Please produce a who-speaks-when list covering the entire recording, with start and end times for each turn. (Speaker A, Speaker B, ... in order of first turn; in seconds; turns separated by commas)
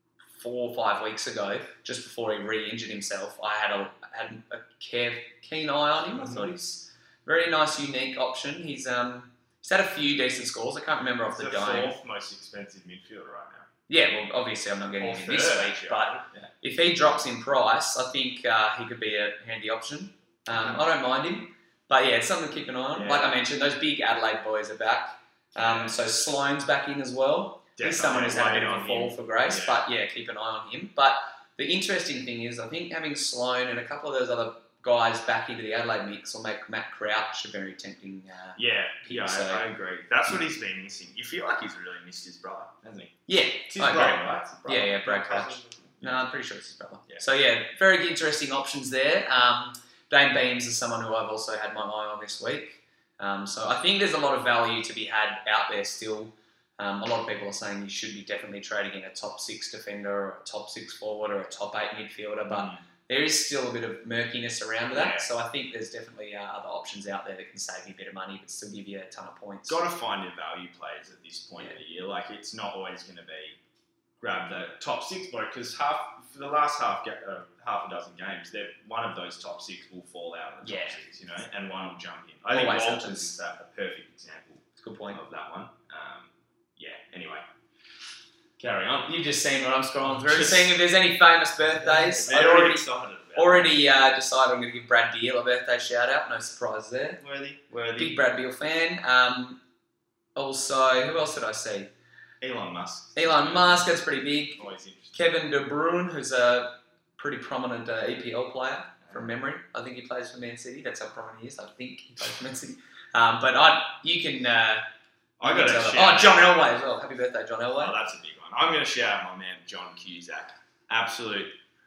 Speaker A: 0.3-11.9, Speaker B: 6.1-6.5, Speaker B: 11.3-13.7, Speaker A: 13.9-39.7, Speaker B: 15.0-16.5, Speaker B: 20.5-20.8, Speaker B: 22.9-23.4, Speaker B: 25.6-25.9, Speaker B: 27.8-29.8, Speaker B: 38.5-43.1, Speaker A: 43.3-69.8, Speaker B: 43.7-46.2, Speaker B: 62.5-62.8, Speaker B: 64.9-65.3, Speaker B: 69.7-73.6, Speaker B: 74.2-87.4, Speaker A: 80.6-81.0, Speaker A: 82.5-83.3, Speaker A: 84.8-85.2, Speaker B: 88.6-89.2, Speaker A: 89.0-97.2, Speaker B: 90.0-90.8, Speaker B: 91.8-93.8, Speaker B: 97.2-98.2, Speaker A: 98.0-99.6, Speaker A: 100.3-101.9, Speaker B: 102.4-103.9, Speaker A: 103.1-114.8, Speaker B: 104.6-105.2, Speaker B: 115.4-116.6, Speaker A: 115.4-118.0, Speaker B: 117.8-121.6